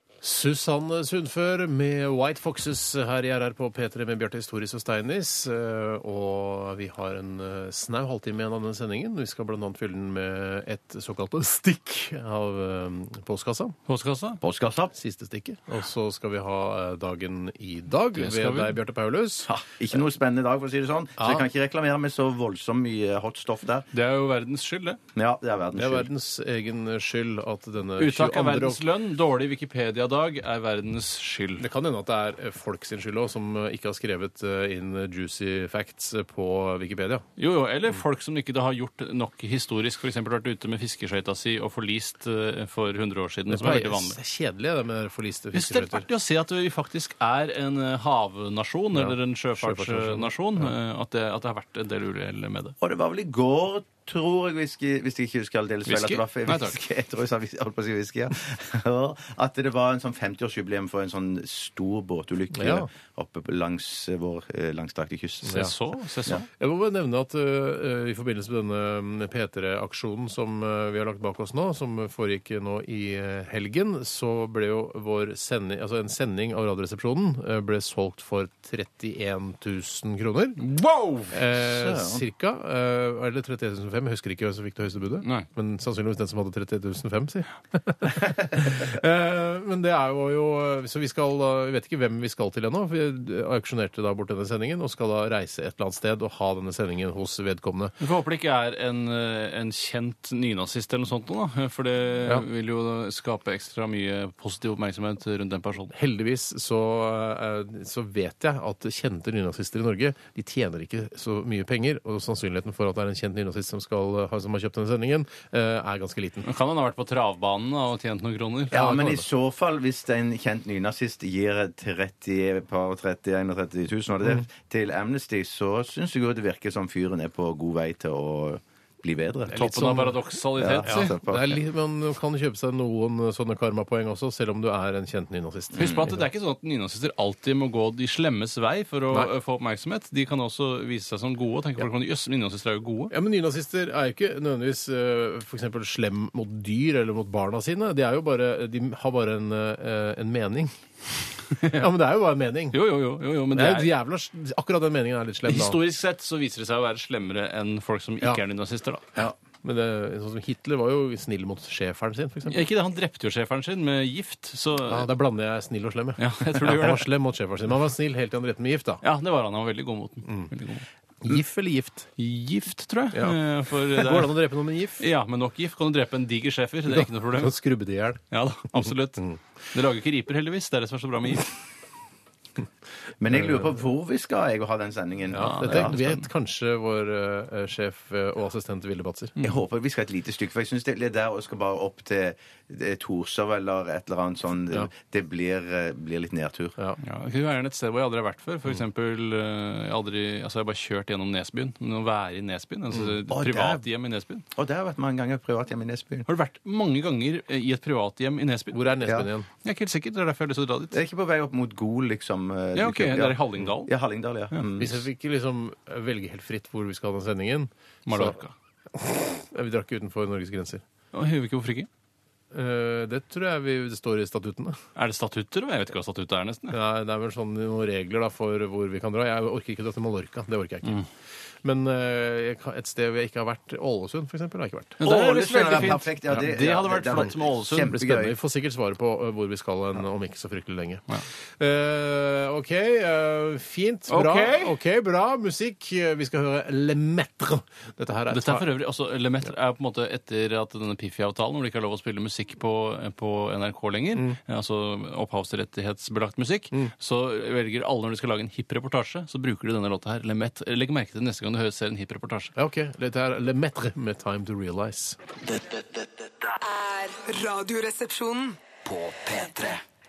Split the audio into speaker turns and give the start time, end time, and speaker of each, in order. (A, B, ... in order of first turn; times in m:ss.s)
0:00.2-0:13.8 A
0:13.9-0:14.4 B
0:14.4-0:14.9 C
0:14.9-0:19.5 A
0:18.2-0:18.8 B
0:19.5-0:23.9 C
0:21.2-0:21.5 A
0:23.9-0:25.0 B
0:25.2-0:26.1 C
0:25.8-0:28.8 A
0:28.0-0:31.7 B
0:31.6-0:37.2 A
0:37.4-0:44.2 B
0:43.5-0:46.1 A
0:45.5-0:52.7 B
0:48.9-0:50.7 A
0:52.8-1:05.7 C
0:55.9-0:56.8 B
1:02.5-1:02.9 A
1:05.5-1:05.7 A
1:05.5-1:06.5 B
1:06.5-1:20.6 A
1:20.6-1:21.4 B
1:21.3-1:38.0 A
1:21.7-1:22.2 C
1:38.0-1:45.9 B
1:45.9-1:56.5 A
1:56.4-1:59.1 B
1:58.7-2:10.0 C
1:58.8-1:59.2 A
2:09.5-2:11.2 B
2:09.6-2:10.1 A
2:10.6-2:11.6 C
2:10.8-2:16.3 A
2:15.7-2:23.1 B
2:23.1-2:30.7 A
2:31.6-2:31.9 B
2:31.6-2:32.8 A
2:32.7-2:33.9 B
2:33.5-2:35.8 A
2:35.5-2:39.1 B
2:39.2-2:42.7 A
2:42.5-2:45.1 B
2:44.9-2:49.0 A
2:46.2-2:47.1 B
2:49.0-2:50.8 B
2:51.2-2:52.1 A
2:52.2-2:54.3 B
2:53.1-2:53.4 A
2:53.9-2:55.0 A
2:55.0-2:57.6 B
2:56.9-2:58.2 A
2:58.3-3:01.5 B
2:58.7-2:59.4 A
3:03.2-3:06.0 C
3:03.3-3:03.7 A
3:05.3-3:09.4 A
3:05.4-3:06.2 B
3:09.4-3:16.8 C
3:17.0-3:24.4 B
3:23.3-3:23.8 C
3:24.6-3:26.3 C
3:26.3-3:28.8 B
3:28.7-3:29.5 A
3:29.6-3:31.0 B
3:30.9-3:35.0 C
3:32.8-3:33.9 B
3:34.8-3:38.4 A
3:38.1-3:38.5 B
3:38.9-3:40.8 A
3:41.1-3:41.9 B
3:42.5-3:44.8 A
3:45.0-3:46.8 B
3:46.7-3:51.0 A
3:51.6-3:55.0 A
3:55.0-3:58.0 B
3:55.0-3:58.4 C
3:57.9-4:08.7 A
4:04.1-4:04.8 B
4:08.3-4:22.5 B
4:22.6-4:25.2 A
4:25.4-4:26.6 D
4:26.6-4:28.6 E
4:28.8-4:29.8 D